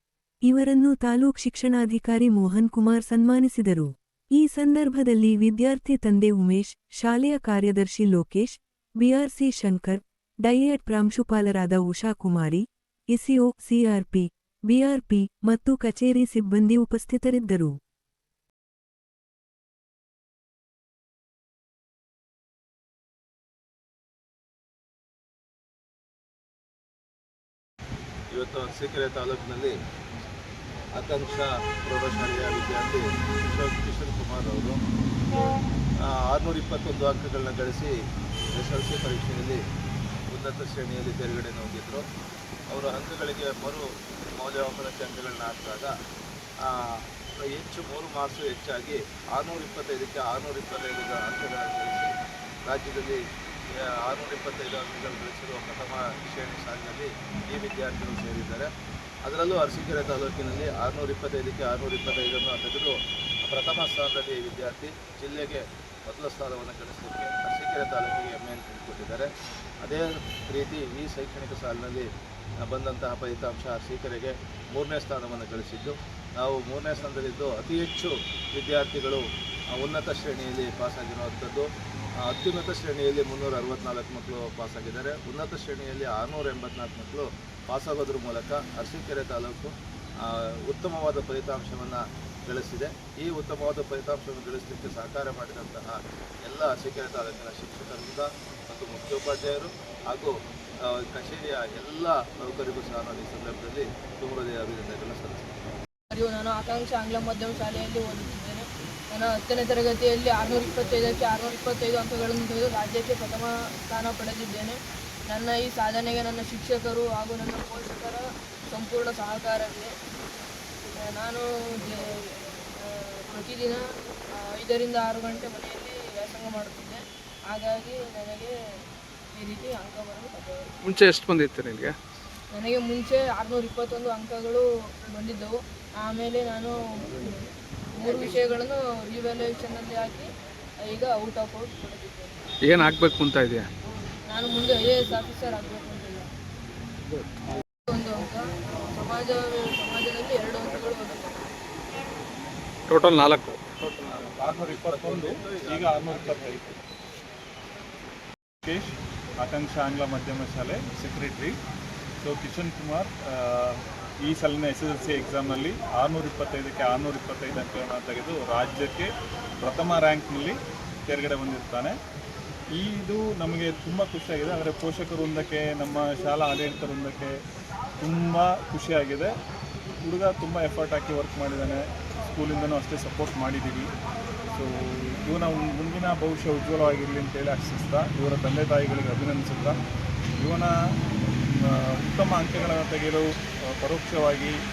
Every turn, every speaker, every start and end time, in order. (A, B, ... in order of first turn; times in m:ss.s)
0:00.4-0:17.8 A
0:28.3-0:29.7 B
0:30.9-0:34.8 B
0:36.0-0:37.9 B
0:38.5-0:39.6 B
0:40.3-0:42.0 B
0:42.7-0:43.8 B
0:44.4-0:45.9 B
0:46.6-0:52.1 B
0:52.6-0:53.2 B
0:53.7-0:58.7 B
0:59.2-1:09.3 B
1:09.8-1:12.0 B
1:12.6-1:21.7 B
1:22.2-1:45.5 B
1:46.1-1:59.9 C
2:00.8-2:03.8 C
2:04.4-2:08.6 C
2:09.3-2:10.7 C
2:10.8-2:12.0 D
2:12.5-2:17.4 C
2:18.0-2:20.3 C
2:20.8-2:22.4 C
2:22.6-2:23.7 D
2:24.3-2:26.3 C
2:27.9-2:31.4 C
2:32.9-2:34.3 D
2:34.2-2:36.6 E
2:34.5-2:36.6 B
2:38.6-2:41.6 E
2:42.2-2:49.1 E
2:49.6-2:50.6 E
2:51.1-2:51.9 E
2:52.7-2:57.3 E
2:58.0-2:59.3 E
3:00.0-3:03.9 E
3:04.5-3:09.8 E
3:10.4-3:10.7 E
3:11.5-3:14.5 E